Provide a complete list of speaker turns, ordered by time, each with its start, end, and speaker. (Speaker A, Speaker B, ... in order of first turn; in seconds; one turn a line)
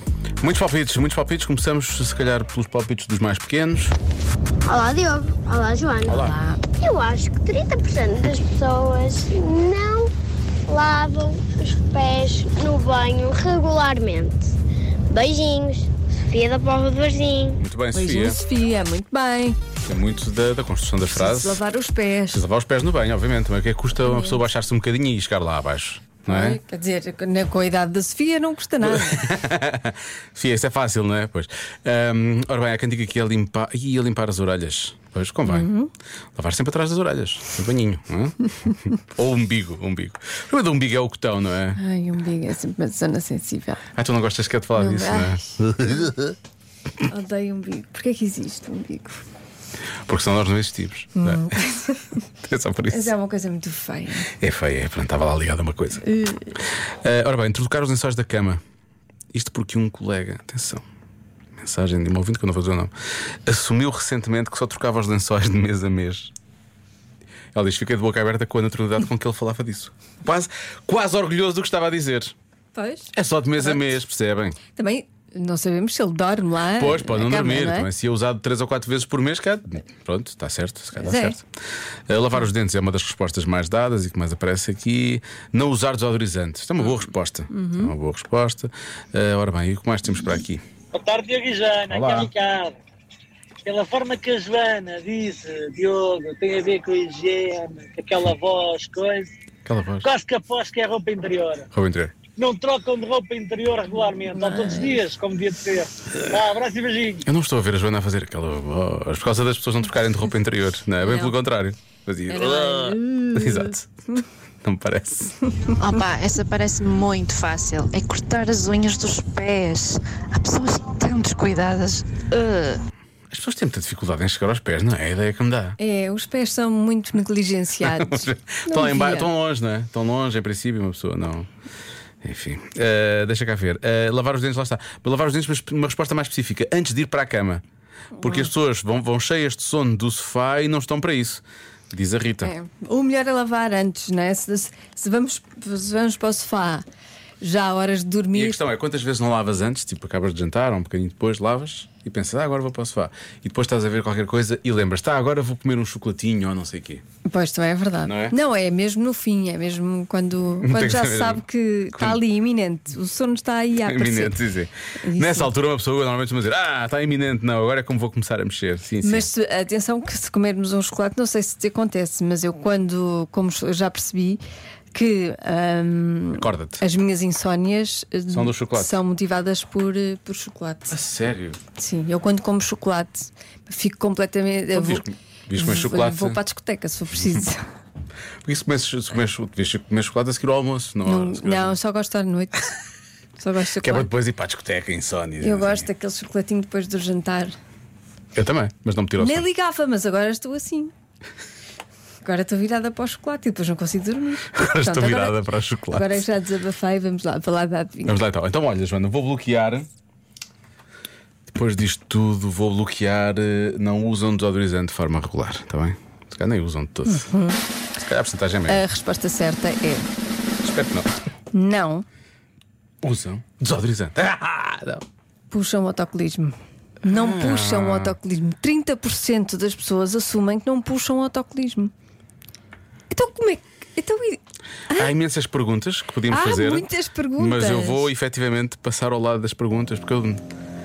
Speaker A: 0.4-4.0
Speaker B: 4.6-10.1
Speaker A: 6.1-6.4
Speaker C: 6.1-6.6
Speaker B: 10.7-14.5
Speaker B: 15.1-17.6
Speaker A: 17.6-18.4
Speaker C: 17.9-19.6
Speaker A: 19.8-21.6
Speaker C: 21.1-22.4
Speaker A: 22.3-26.6
Speaker C: 24.0-24.5
Speaker C: 26.3-29.3
Speaker A: 28.9-35.7
Speaker C: 35.5-35.9
Speaker A: 36.3-41.8
Speaker C: 41.8-43.8
Speaker A: 44.0-46.3
Speaker C: 44.7-46.1
Speaker C: 47.0-49.2
Speaker A: 50.1-51.6
Speaker C: 51.2-52.1
Speaker A: 52.4-53.1
Speaker C: 52.9-54.3
Speaker A: 54.3-56.1
Speaker C: 56.1-56.5
Speaker A: 56.9-58.6
Speaker A: 59.3-60.8
Speaker A: 61.6-62.9
Speaker A: 63.5-66.3
Speaker A: 67.5-72.3
Speaker C: 72.7-73.9
Speaker A: 73.2-74.6
Speaker C: 74.8-77.9
Speaker A: 76.8-81.5
Speaker C: 81.0-81.4
Speaker A: 82.1-90.6
Speaker C: 87.5-87.9
Speaker D: 90.9-92.8
Speaker A: 91.9-92.3
Speaker D: 93.7-99.3
Speaker A: 99.7-100.1
Speaker D: 100.0-101.7
Speaker A: 101.7-102.2
Speaker D: 102.3-107.2
Speaker C: 104.3-105.0
Speaker A: 107.2-114.0
Speaker C: 111.0-111.3
Speaker C: 112.3-114.2
Speaker A: 114.6-115.4
Speaker E: 115.8-122.8
Speaker A: 123.3-125.8
Speaker C: 125.8-129.3
Speaker A: 127.8-131.5
Speaker A: 132.2-137.6
Speaker C: 138.2-138.5
Speaker A: 138.2-142.5
Speaker C: 142.4-146.8
Speaker C: 147.4-148.6
Speaker A: 148.3-157.0
Speaker C: 157.2-164.4
Speaker A: 158.1-158.4
Speaker A: 160.6-162.2
Speaker A: 163.8-169.3
Speaker C: 165.0-165.5
Speaker C: 169.0-174.4
Speaker C: 174.9-181.0
Speaker A: 176.3-176.8
Speaker A: 178.3-179.0
Speaker A: 180.9-181.6
Speaker C: 181.8-187.6
Speaker A: 184.7-186.4
Speaker A: 188.4-191.8
Speaker C: 191.1-192.8
Speaker C: 193.4-194.1
Speaker A: 193.8-195.9
Speaker C: 195.4-197.6
Speaker A: 198.3-199.4
Speaker C: 199.2-200.9
Speaker C: 202.2-208.2
Speaker A: 204.5-206.2
Speaker A: 208.1-209.9
Speaker A: 211.5-217.3
Speaker C: 217.1-217.6
Speaker A: 218.0-218.8
Speaker C: 218.7-220.1
Speaker A: 220.6-221.1
Speaker C: 221.5-222.1
Speaker A: 223.0-225.0
Speaker C: 225.5-231.9
Speaker A: 227.0-228.2
Speaker C: 233.1-234.4
Speaker A: 234.9-240.4
Speaker C: 236.3-238.1